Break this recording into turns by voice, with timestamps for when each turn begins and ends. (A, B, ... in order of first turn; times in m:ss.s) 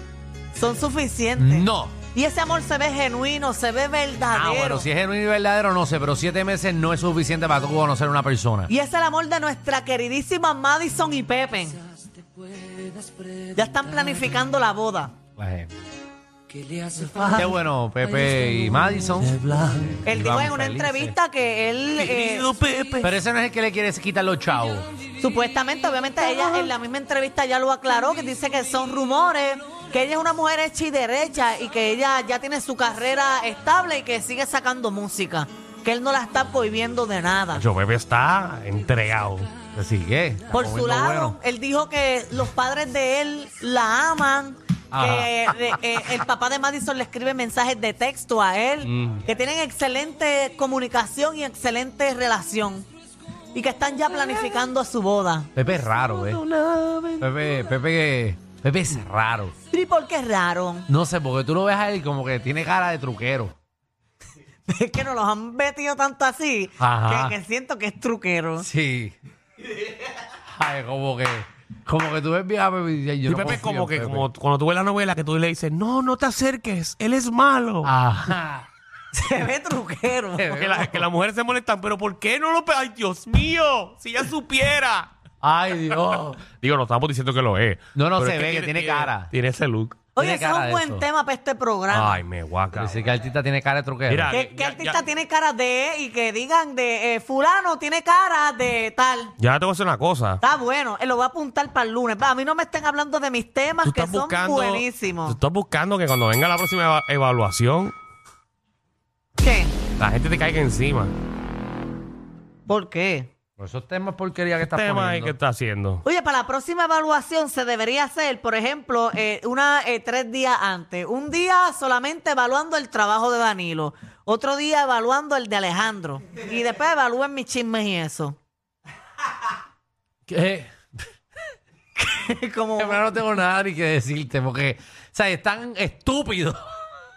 0:00.5-0:04.9 A
0:01.4-0:02.0 B
0:04.3-0:08.7 B
0:08.7-0:11.8 A
0:12.6-0:13.3 C
0:13.5-0:15.1 A
0:15.4-0:15.7 B
0:16.5-0:20.0 C
0:17.3-0:21.1 B
0:20.0-0:22.4 A
0:22.0-0:23.1 C
0:23.0-0:24.9 B
0:25.2-0:37.6 A
0:37.5-0:39.5 C
0:39.7-0:41.4 B
0:40.5-0:52.9 A
0:44.9-0:45.3 B
0:53.5-0:55.5 A
0:55.5-0:56.4 B
0:56.2-0:57.5 C
0:57.2-0:59.5 B
0:59.7-1:00.9 A
1:00.9-1:03.5 B
1:04.7-1:08.7 A
1:06.8-1:07.4 B
1:08.6-1:09.1 B
1:10.3-1:14.3 B
1:13.2-1:17.9 C
1:17.8-1:18.7 B
1:19.1-1:20.6 A
1:20.4-1:21.0 B
1:20.5-1:25.1 C
1:25.4-1:26.4 B
1:26.6-1:30.0 C
1:27.9-1:29.3 B
1:30.1-1:32.2 A
1:30.2-1:31.0 B
1:31.9-1:33.0 C
1:32.7-1:34.3 B
1:34.0-1:35.0 C
1:34.3-1:39.3 A
1:39.4-1:40.4 C
1:40.4-1:45.4 A
1:43.8-1:47.9 C
1:49.4-1:49.7 A
1:50.0-1:51.1 C
1:52.7-1:53.3 A
1:53.6-1:55.3 B
1:54.6-1:56.0 C
1:56.0-2:08.4 A
2:10.3-2:10.7 B
2:12.0-2:13.0 A
2:12.8-2:16.6 B